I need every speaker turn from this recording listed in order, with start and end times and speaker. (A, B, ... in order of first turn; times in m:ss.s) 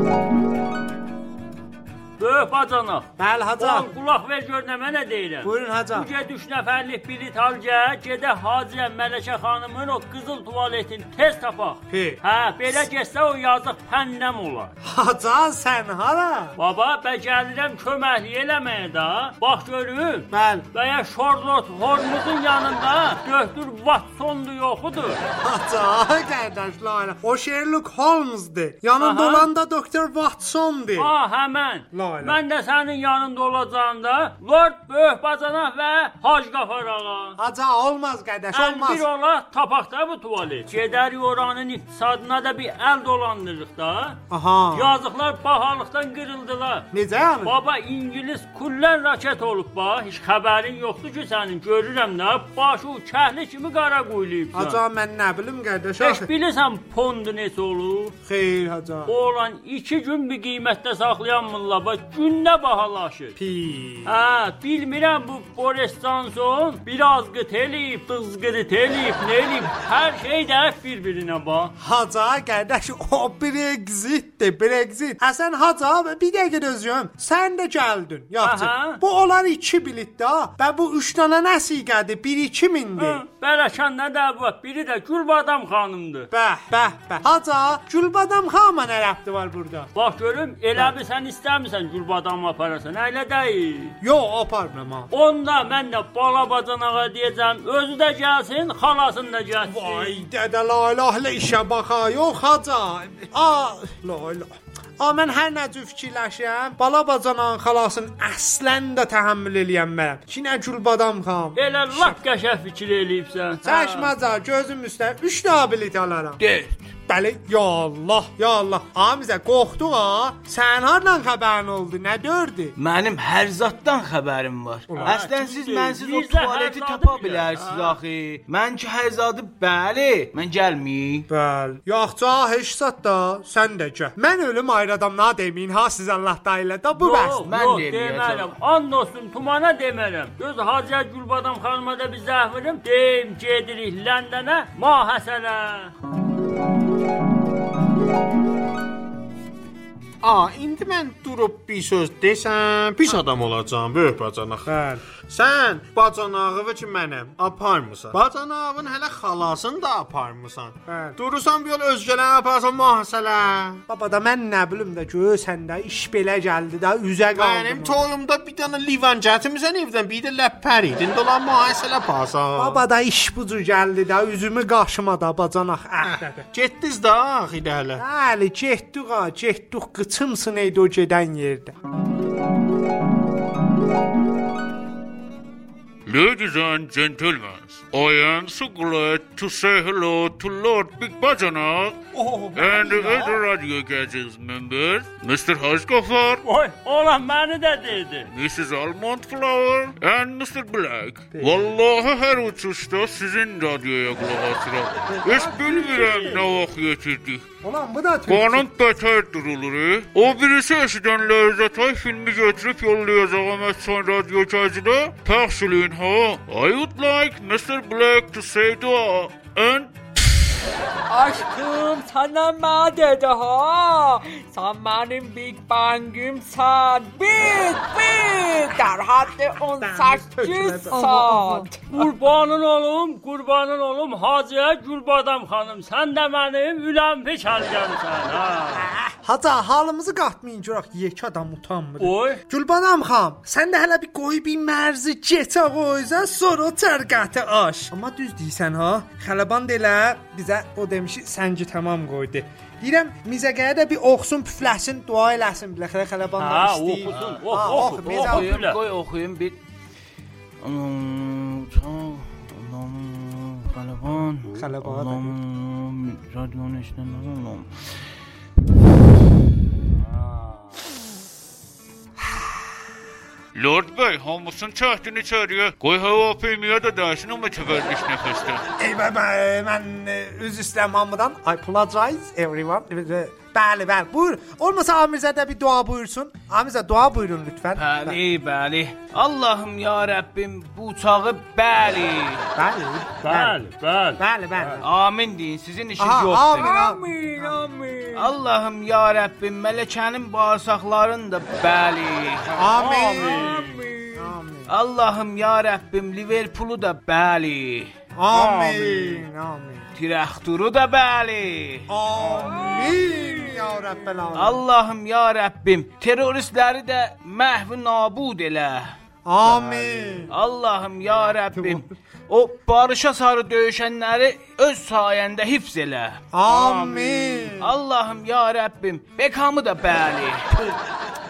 0:02.2-0:14.7 A
0:03.2-0:03.9 B
0:05.4-0:06.1 B
0:11.9-0:12.8 B
0:14.8-0:16.6 B
0:16.6-0:25.2 A
0:20.3-0:20.6 B
0:25.4-0:31.1 B
0:29.0-0:29.5 A
0:31.0-0:37.4 A
0:31.9-0:32.4 B
0:37.4-0:39.0 B
0:38.5-0:44.2 A
0:44.3-0:45.0 B
0:44.7-0:46.9 A
0:46.9-0:47.6 B
0:47.4-0:54.8 A
0:54.5-0:56.3 B
0:56.0-0:58.2 A
0:58.2-0:59.1 B
0:59.0-1:03.3 A
1:03.4-1:04.1 B
1:04.0-1:11.7 A
1:11.8-1:23.2 B
1:18.4-1:19.0 A
1:23.0-1:26.3 A
1:26.3-1:29.9 B
1:30.0-1:34.0 A
1:34.0-1:35.1 B
1:35.1-1:40.2 A
1:39.6-1:52.2 B
1:51.6-1:54.1 A
1:53.6-1:56.4 B
1:56.4-1:56.8 C
1:57.1-2:02.7 B
2:02.8-2:11.3 C
2:04.9-2:05.2 B
2:05.0-2:08.0 A
2:11.3-2:17.4 B
2:17.0-2:25.9 A
2:17.4-2:18.5 C
2:30.2-2:34.7 D
2:34.6-2:35.0 B
2:35.3-2:43.8 D
2:40.9-2:41.2 B
2:43.9-2:48.0 B
2:47.3-2:52.8 D
2:52.6-2:56.4 B
2:56.1-2:58.0 D
2:58.0-3:01.7 B
3:06.0-3:12.0 E
3:12.1-3:13.4 B
3:12.6-3:16.4 E
3:16.4-3:18.3 A
3:18.3-3:27.5 E
3:21.3-3:21.7 B
3:25.1-3:26.6 B
3:27.6-3:28.6 B
3:28.3-3:39.9 E
3:41.1-3:51.9 F
3:49.8-3:51.7 B
3:51.9-3:58.9 A
3:58.7-4:18.5 B
4:02.0-4:02.4 A
4:16.4-4:18.8 A
4:17.1-4:17.4 C
4:18.0-4:19.6 C
4:20.6-4:27.7 C
4:24.5-4:25.3 B
4:29.9-4:30.7 A
4:33.6-4:38.6 E
4:38.8-4:48.2 B
4:47.8-4:52.5 C
4:52.6-4:53.6 B
4:53.2-4:54.8 A
4:54.2-4:54.9 B
4:54.8-4:56.7 C
4:56.0-4:57.6 B
4:56.6-4:58.3 F
4:58.1-5:02.5 C
5:02.6-5:03.6 B
5:02.7-5:03.8 A
5:03.2-5:04.3 F
5:04.1-5:04.7 B
5:04.7-5:07.9 C
5:08.2-5:09.9 B
5:08.3-5:09.2 A
5:10.0-5:11.9 C
5:11.9-5:14.6 B
5:12.2-5:14.0 F
5:14.3-5:19.0 C
5:19.3-5:20.3 B
5:19.4-5:26.2 C
5:21.5-5:21.9 B
5:26.3-5:27.7 B
5:26.5-5:27.5 A
5:27.6-5:30.5 C